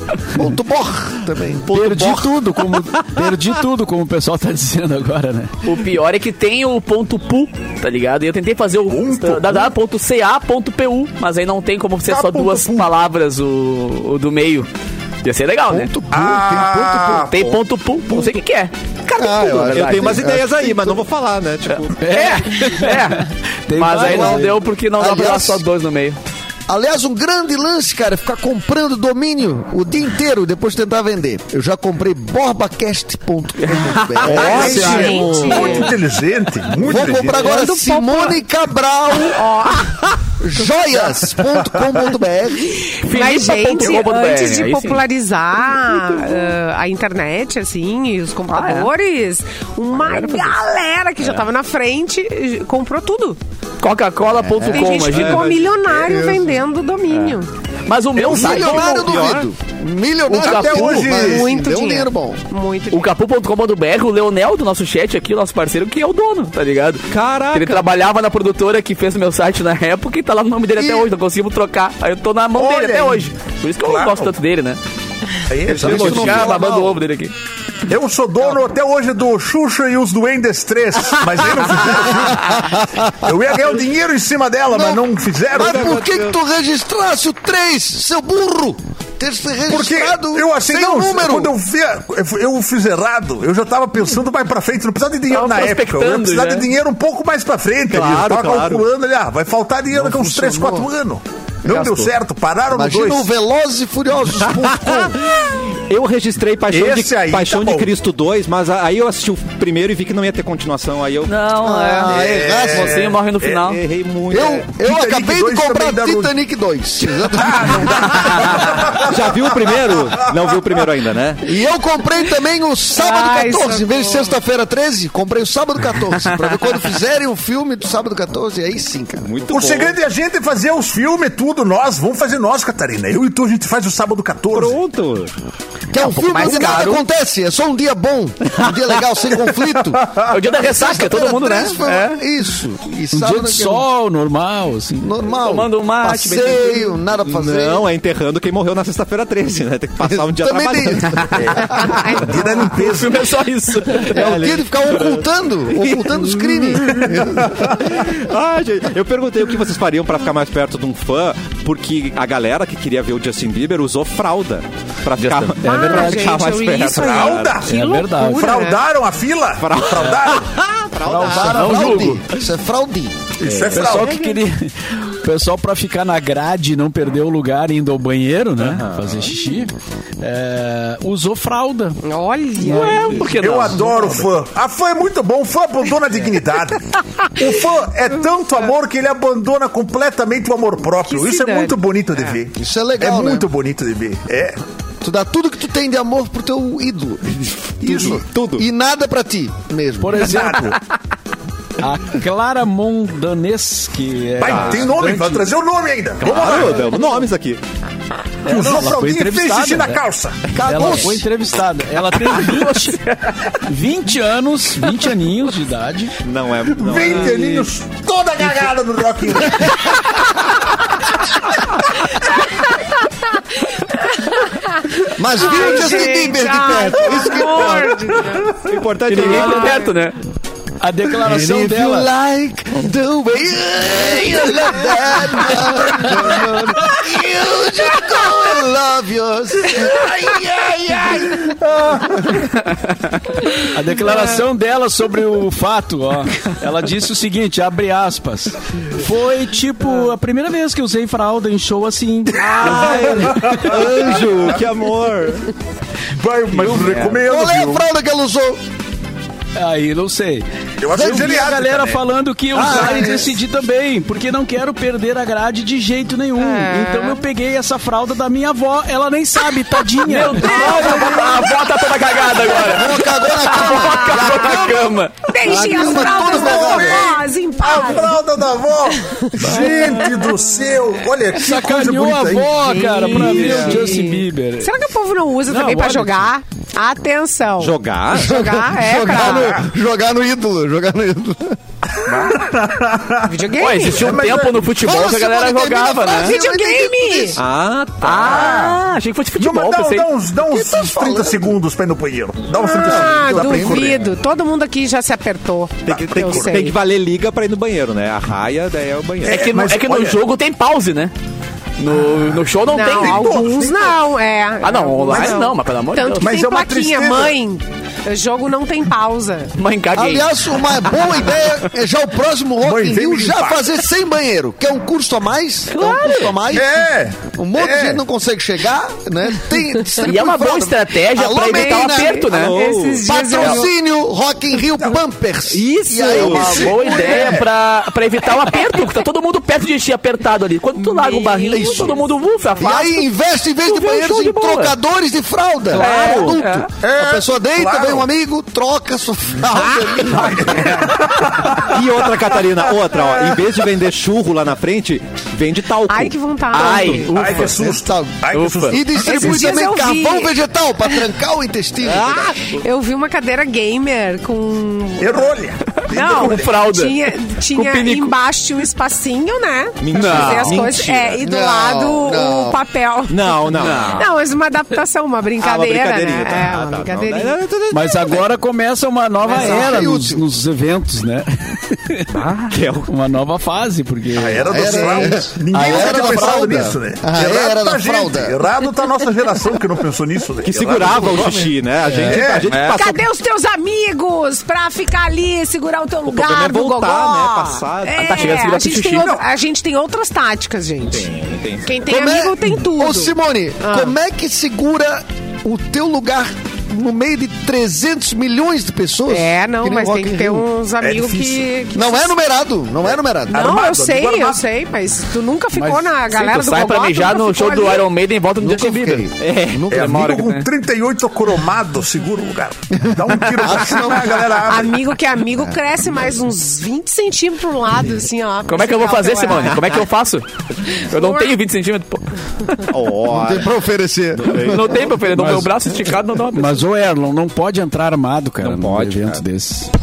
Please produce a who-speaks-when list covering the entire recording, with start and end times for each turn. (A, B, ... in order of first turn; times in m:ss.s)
0:00.3-0:01.7 A
0:01.7-0:03.2 B
0:01.7-0:05.5 C
0:05.6-0:14.7 D
0:08.9-0:09.7 E
0:12.1-0:12.9 E
0:15.2-0:15.9 D
0:15.7-0:17.2 A
0:16.1-0:17.4 E
0:17.3-0:20.2 D
0:17.4-0:17.6 B
0:19.2-0:21.0 A
0:19.6-0:22.3 B
0:22.0-0:24.6 C
0:22.1-0:26.2 D
0:24.0-0:25.6 A
0:26.7-0:35.4 A
0:33.6-0:35.6 D
0:34.3-0:37.5 E
0:34.5-0:35.5 C
0:34.7-0:35.9 F
0:36.8-0:39.5 A
0:37.3-0:38.4 F
0:39.2-0:39.9 F
0:40.4-0:42.8 A
0:42.9-0:53.4 F
0:43.0-0:45.0 D
0:46.0-0:46.5 D
0:48.5-0:48.9 D
0:50.0-0:50.5 D
0:53.8-0:55.5 D
0:54.4-0:55.0 A
0:54.7-0:57.5 F
0:55.1-0:56.3 B
0:56.1-0:56.4 A
0:57.1-0:59.4 D
0:58.2-1:02.4 A
0:58.3-0:59.5 B
1:00.3-1:01.1 D
1:00.4-1:01.5 E
1:01.0-1:03.1 F
1:02.9-1:14.8 D
1:07.1-1:07.8 B
1:10.8-1:11.1 A
1:12.6-1:13.3 E
1:13.8-1:14.3 E
1:15.5-1:16.4 E
1:15.7-1:17.0 A
1:15.7-1:16.5 B
1:15.8-1:17.3 D
1:17.9-1:26.0 E
1:22.5-1:23.0 A
1:24.7-1:25.0 A
1:25.5-1:31.5 A
1:25.5-1:26.4 B
1:29.7-1:43.3 E
1:35.3-1:36.7 D
1:37.9-1:38.8 B
1:39.9-1:40.9 A
1:41.7-1:42.1 A
1:42.7-1:45.2 A
1:44.4-1:51.4 B
1:46.7-1:47.9 E
1:51.3-1:52.2 D
1:51.6-1:53.2 A
1:52.1-1:52.8 B
1:52.1-1:53.7 E
1:52.7-1:53.8 D
1:53.6-1:54.7 B
1:54.3-1:58.8 A
1:54.8-1:56.3 E
1:57.2-2:00.5 E
1:58.5-2:01.4 B
2:01.4-2:09.6 A
2:03.0-2:04.3 F
2:09.2-2:10.0 B
2:09.5-2:14.8 E
2:14.5-2:15.3 B
2:15.9-2:23.9 A
2:15.9-2:17.0 D
2:20.0-2:20.3 E
2:20.3-2:22.2 D
2:23.1-2:25.0 C
2:25.0-2:27.9 A
2:25.3-2:27.0 D
2:27.2-2:32.2 B
2:30.0-2:31.4 A
2:31.4-2:33.3 E
2:31.8-2:32.6 F
2:32.7-2:34.3 D
2:34.1-2:47.6 B
2:34.1-2:37.8 A
2:37.2-2:37.9 E
2:45.2-2:45.6 D
2:45.6-2:48.8 F
2:45.9-2:46.3 C
2:46.9-2:47.7 E
2:47.6-2:48.5 C
2:48.3-2:50.6 E
2:49.6-2:52.0 B
2:51.0-2:52.2 C
2:51.2-2:53.3 A
2:51.5-2:52.2 D
2:53.4-2:54.2 E
2:53.4-3:02.0 C
2:54.1-2:54.4 F
2:58.6-2:59.3 B
3:02.0-3:03.2 F
3:02.6-3:03.4 C
3:02.6-3:04.1 D
3:03.4-3:14.6 E
3:11.1-3:12.4 F
3:12.6-3:13.5 A
3:15.0-3:20.4 A
3:17.9-3:18.6 B
3:20.0-3:20.8 C
3:20.2-3:20.8 E
3:21.8-3:25.5 C
3:24.4-3:26.8 E
3:24.4-3:24.9 B
3:26.2-3:27.6 B
3:28.4-3:30.0 C
3:28.5-3:30.4 E
3:30.5-3:31.2 A
3:30.5-3:33.0 C
3:33.6-3:36.2 C
3:36.2-3:37.5 B
3:36.7-3:40.2 E
3:37.2-3:37.6 C
3:44.2-3:44.5 F
3:45.2-3:47.9 A
3:45.3-3:48.6 F
3:48.6-3:49.8 B
3:49.1-3:50.2 D
3:49.2-3:50.0 F
3:49.2-3:49.8 C
3:50.8-3:52.1 C
3:51.2-4:02.2 A
4:01.4-4:02.4 E
4:03.7-4:13.8 C
4:12.4-4:15.5 B
4:12.4-4:14.6 E
4:16.2-4:17.8 E
4:17.2-4:18.6 A
4:19.6-4:30.6 C
4:20.8-4:22.0 E
4:20.9-4:21.6 A
4:22.5-4:23.4 A
4:26.4-4:27.2 F
4:30.0-4:35.6 D
4:30.5-4:31.3 F
4:30.5-4:31.2 A
4:30.6-4:31.4 E
4:32.2-4:37.2 A
4:33.5-4:38.1 F
4:36.2-4:37.1 E
4:37.6-4:42.6 E
4:39.0-4:40.1 F
4:41.4-4:44.7 C
4:42.5-4:49.6 F
4:45.5-4:46.1 C
4:47.6-4:48.4 B
4:48.1-4:51.6 A
4:49.3-4:49.6 E
4:52.0-4:53.3 E
4:53.3-4:54.3 F
4:53.6-4:56.4 D
4:53.9-4:54.6 E
4:54.7-4:57.4 A
4:56.1-4:57.4 F
4:57.4-4:58.7 B
4:58.0-5:00.1 D
4:58.3-4:58.7 E
4:59.4-5:04.1 E
5:00.5-5:01.6 A
5:02.6-5:06.8 F
5:02.6-5:04.0 A
5:05.9-5:09.5 B
5:05.9-5:06.6 E
5:09.2-5:10.2 E
5:09.3-5:11.1 D
5:11.8-5:13.4 D
5:12.7-5:19.5 F
5:12.9-5:14.0 E
5:14.6-5:16.3 D
5:15.1-5:15.4 E
5:16.2-5:17.4 E
5:19.6-5:21.5 D
5:19.9-5:26.7 A
5:22.6-5:23.7 E
5:25.7-5:26.4 D
5:25.9-5:26.3 B
5:26.5-5:28.0 E
5:27.3-5:32.2 A
5:30.0-5:32.6 D
5:31.4-5:33.7 F
5:32.3-5:33.0 B
5:33.0-5:37.4 A
5:35.5-5:36.7 B
5:36.1-5:43.1 D
5:36.3-5:37.5 E
5:40.8-5:42.0 F
5:41.5-5:42.0 A
5:42.6-5:50.9 A
5:43.6-5:44.8 D
5:45.8-5:46.7 D
5:45.8-5:46.4 B
5:46.8-5:48.1 E
5:49.6-5:53.5 E
5:51.5-5:56.2 B
5:55.9-5:57.5 F
5:56.5-5:57.7 D
5:57.1-5:59.6 E
5:57.6-6:02.3 A
5:58.3-5:58.8 D
5:59.0-6:00.4 F
6:01.9-6:02.3 B
6:02.0-6:05.3 F
6:05.0-6:06.6 E
6:05.8-6:08.1 D
6:05.9-6:17.4 F
6:09.8-6:11.2 B
6:10.0-6:10.6 C
6:10.0-6:10.3 D
6:11.2-6:12.6 A
6:13.1-6:14.1 B
6:13.6-6:14.1 D
6:15.4-6:18.2 B
6:17.7-6:22.2 C
6:19.3-6:19.7 F
6:19.3-6:20.2 A
6:22.1-6:22.9 B
6:22.9-6:26.1 C
6:24.2-6:32.6 E
6:24.5-6:28.4 A
6:30.4-6:33.1 B
6:30.8-6:31.5 A
6:31.9-6:32.2 C
6:32.5-6:32.8 D
6:32.7-6:41.1 F
6:36.1-6:38.5 B
6:38.0-6:39.2 D
6:39.0-6:39.2 E
6:40.9-6:41.8 B
6:41.6-6:44.0 F
6:41.8-6:50.5 A
6:49.1-6:52.1 F
6:50.8-6:51.5 E
6:51.7-6:53.4 A
6:53.3-6:57.9 F
6:53.3-6:54.4 E
6:55.5-6:55.9 C
6:56.1-6:59.1 D
6:58.4-6:59.9 A
6:59.2-6:59.7 B
6:59.7-7:00.5 D
6:59.7-7:04.9 E
7:02.7-7:04.4 A
7:04.5-7:09.8 F
7:08.5-7:10.3 D
7:10.8-7:12.6 D
7:10.9-7:11.3 F
7:12.7-7:13.5 B
7:13.1-7:14.8 A
7:14.1-7:14.9 B
7:14.3-7:16.6 D
7:15.1-7:15.7 C
7:16.3-7:19.7 C
7:18.4-7:19.2 B